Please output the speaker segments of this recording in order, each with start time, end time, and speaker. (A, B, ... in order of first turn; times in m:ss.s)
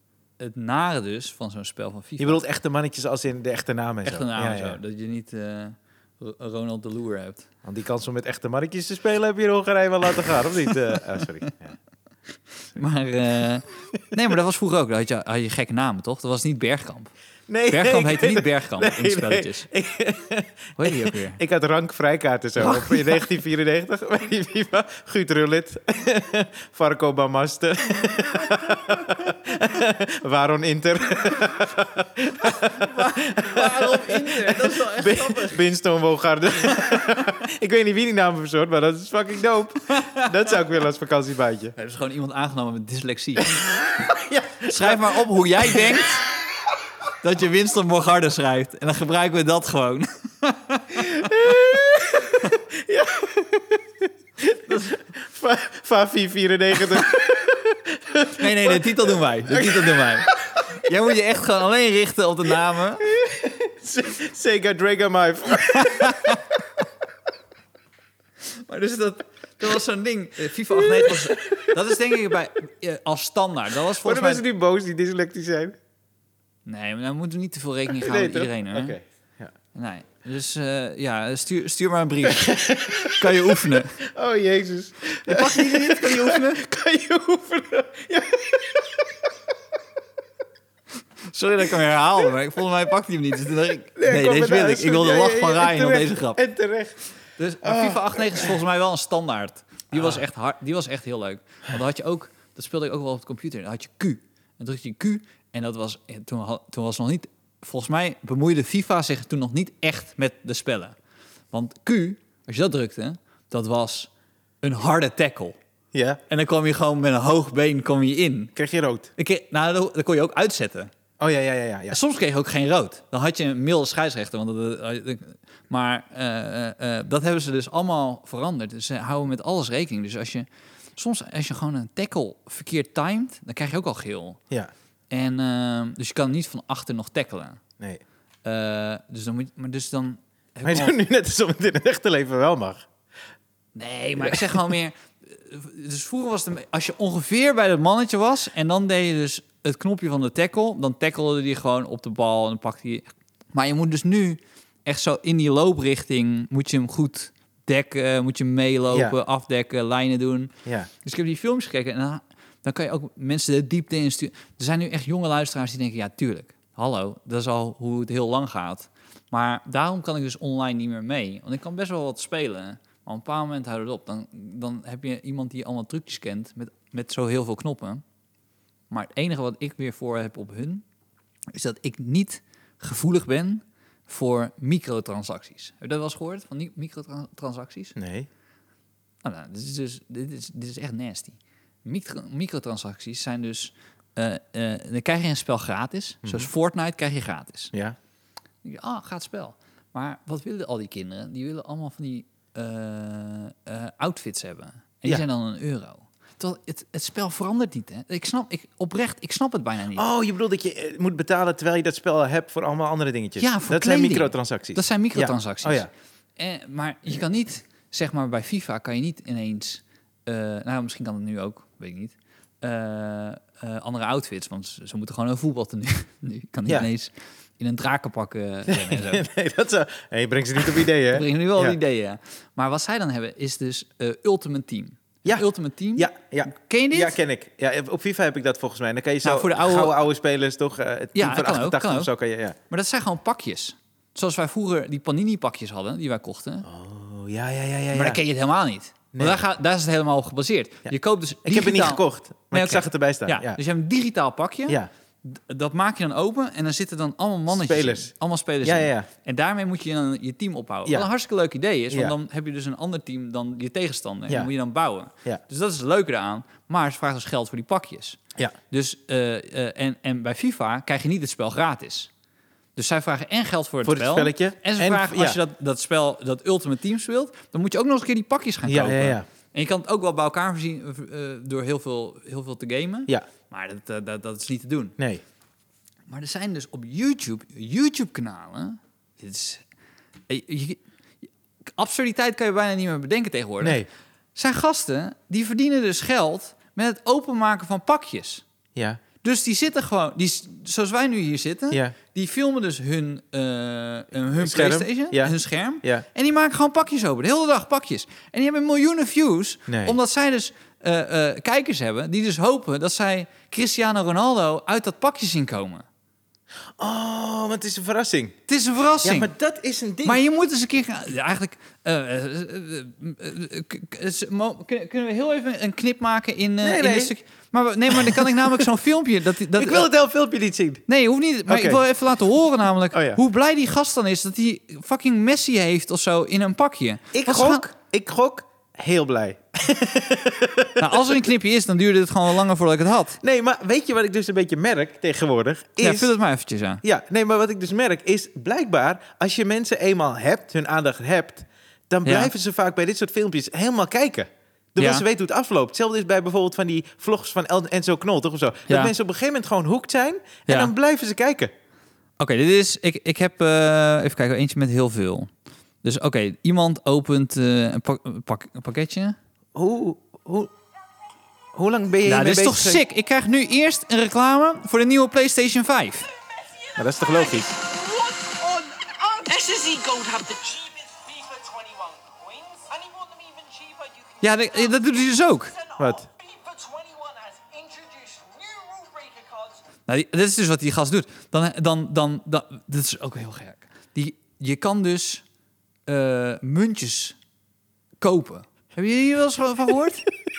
0:00.4-0:02.4 A
0:02.2-0:04.8 B
0:04.0-0:07.5 A
0:07.6-0:11.7 B
0:12.7-0:17.1 A
0:17.5-0:41.7 B
0:17.7-0:19.7 A
0:20.8-0:21.4 A
0:22.6-0:23.2 A
0:32.4-0:35.6 A
0:39.9-0:40.3 A
0:41.8-0:43.6 A
0:43.5-0:46.0 B
0:44.6-0:46.2 A
0:47.2-0:51.6 A
0:50.9-1:00.4 B
0:58.4-1:03.1 A
1:03.0-1:06.5 B
1:05.7-1:06.4 A
1:08.6-1:14.4 A
1:10.7-1:11.8 B
1:14.0-1:15.8 B
1:16.6-1:19.0 A
1:17.9-1:19.5 B
1:19.7-1:24.0 A
1:22.3-1:29.3 B
1:25.2-1:26.6 A
1:31.3-1:36.4 A
1:34.0-1:37.0 B
1:37.4-1:51.0 A
1:37.6-1:38.6 B
1:39.9-1:40.2 B
1:51.5-1:54.1 A
1:54.6-1:55.6 A
1:55.9-1:56.2 B
1:56.3-1:58.5 A
1:58.6-1:59.1 B
1:59.2-2:00.9 A
2:01.2-2:02.0 B
2:01.9-2:14.4 A
2:15.1-2:17.6 A
2:18.4-2:21.0 A
2:20.6-2:22.8 B
2:23.7-2:58.0 A
2:24.2-2:24.5 B
2:58.9-3:00.8 A
3:01.5-3:08.0 A
3:08.0-3:08.3 B
3:09.2-3:17.7 A
3:16.2-3:16.5 B
3:18.6-3:30.0 A
3:29.9-3:35.9 B
3:33.4-3:49.2 A
3:48.7-3:51.8 B
3:51.1-3:57.2 A
3:55.2-4:02.6 B
3:59.2-4:00.0 A
4:01.1-4:02.1 A
4:02.7-4:06.7 A
4:06.6-4:08.2 B
4:07.9-4:32.1 A
4:09.1-4:09.4 B
4:11.4-4:13.6 B
4:17.5-4:18.1 B
4:18.6-4:19.1 B
4:21.9-4:22.1 B
4:32.8-4:45.0 A
4:33.8-4:35.4 B
4:38.6-4:39.2 B
4:45.0-4:45.2 B
4:46.1-4:49.6 A
4:50.3-4:50.8 A
4:51.8-4:53.8 A
4:53.6-4:53.9 B
4:54.3-4:58.4 A
4:58.8-4:59.0 B
4:59.2-5:15.8 A
5:04.4-5:06.0 B
5:09.7-5:10.0 B
5:16.8-5:18.4 B
5:18.5-5:19.3 A
5:19.0-5:20.2 B
5:20.0-5:29.9 A
5:26.6-5:27.1 B
5:27.9-5:28.7 B
5:29.5-5:30.8 B
5:30.9-5:37.6 A
5:31.5-5:31.8 B
5:32.9-5:33.2 B
5:37.1-5:41.2 B
5:40.8-5:43.2 A
5:43.2-5:46.1 B
5:45.8-5:46.8 A
5:46.8-6:01.5 B
5:52.0-5:52.3 A
5:54.8-5:55.0 A
5:58.7-5:58.9 A
6:00.5-6:00.7 A
6:02.2-6:05.3 A
6:05.8-6:09.2 A
6:09.5-6:10.5 B
6:11.5-6:12.8 B
6:12.0-6:16.1 A
6:16.7-6:29.6 C
6:16.8-6:17.5 B
6:24.2-6:25.5 A
6:25.8-6:26.1 B
6:29.9-6:35.2 A
6:35.9-6:37.2 A
6:38.0-6:40.1 A